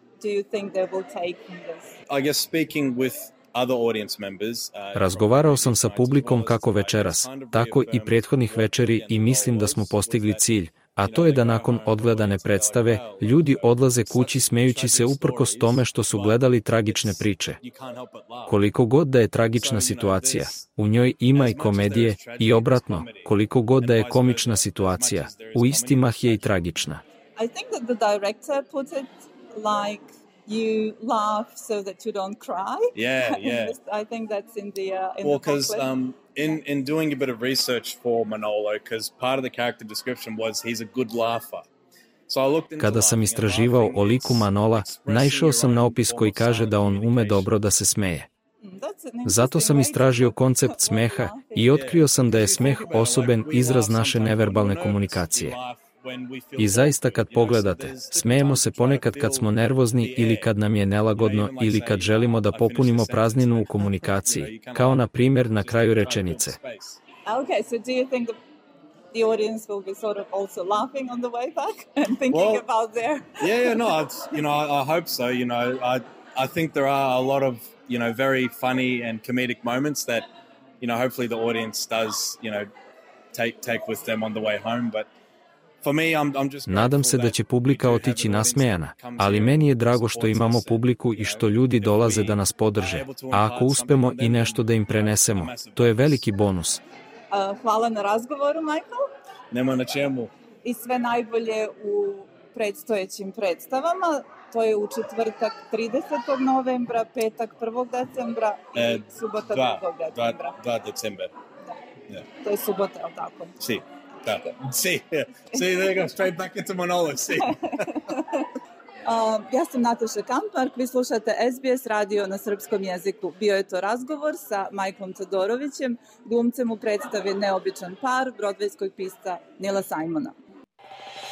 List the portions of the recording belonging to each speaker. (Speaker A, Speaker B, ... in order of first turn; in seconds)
Speaker A: 0.2-2.0, 27.4-35.9, 48.6-51.7, 67.2-68.3, 69.1-73.8, 97.3-99.0, 100.6-110.6, 112.4-113.5, 117.7-118.5, 119.0-130.4
Speaker B: 2.1-18.6, 19.5-20.7, 21.3-26.5, 32.9-33.8, 35.2-41.7, 42.3-47.5, 51.6-60.5, 61.1-67.0, 72.3-72.6, 73.4-80.3, 80.8-82.7, 83.3-85.1, 85.8-96.2, 99.5-100.3, 108.8-111.3, 113.6-118.0
Speaker C: 4.9-17.6, 18.5-27.0, 42.8-48.3, 49.2-55.6, 56.6-66.6, 86.7-96.8